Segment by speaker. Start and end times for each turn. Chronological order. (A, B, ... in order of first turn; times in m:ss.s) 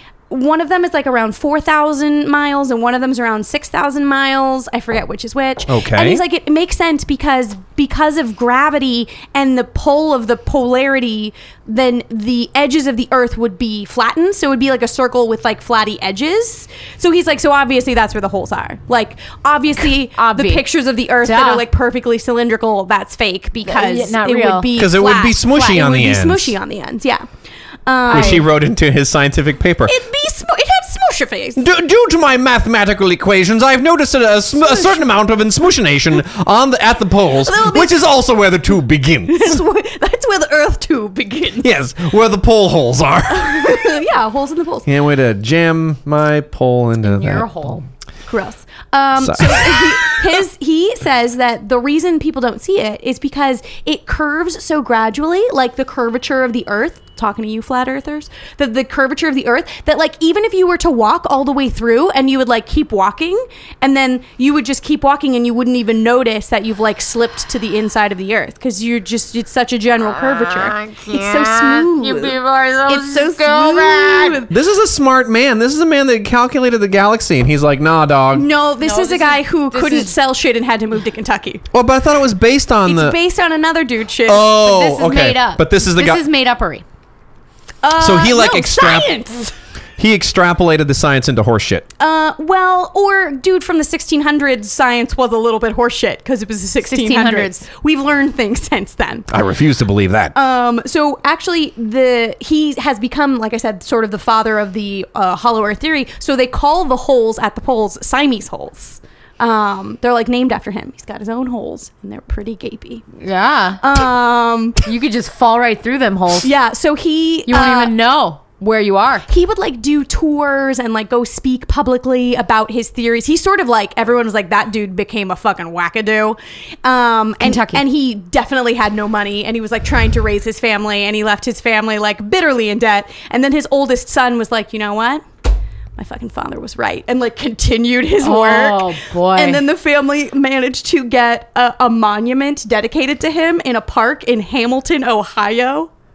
0:00.3-0:27.2 A
0:05.7-0:06.2 B
0:20.1-0:20.6 C
0:21.2-0:21.6 C
0:23.6-0:24.7 C
0:24.8-0:26.6 B
0:27.8-0:28.4 A
0:28.1-0:28.4 C
0:28.1-0:29.9 B
0:29.8-0:31.6 A
0:31.6-0:39.6 B
0:34.6-0:35.0 A
0:37.4-0:38.0 A
0:39.3-0:41.7 A
0:41.6-0:44.0 B
0:43.3-0:44.9 A
0:44.8-0:47.5 B
0:47.0-0:47.8 C
0:48.3-1:14.5 A
0:49.2-0:50.4 B
1:10.1-1:14.4 C
1:14.5-1:18.5 B
1:18.3-1:21.6 A
1:18.8-1:20.1 C
1:21.7-1:23.2 B
1:22.8-1:24.5 A
1:24.2-1:26.2 B
1:24.5-1:26.8 C
1:27.8-1:29.5 A
1:28.0-1:29.2 B
1:30.0-1:31.8 B
1:32.0-1:39.3 A
1:36.8-1:37.6 C
1:39.3-1:40.3 B
1:40.3-1:53.1 A
1:53.2-1:53.8 C
1:53.8-1:54.8 A
1:54.8-1:56.5 C
1:56.4-1:57.9 A
1:57.5-1:59.3 C
1:59.3-2:15.2 A
2:07.4-2:07.8 C
2:16.0-2:25.9 A
2:18.2-2:19.6 C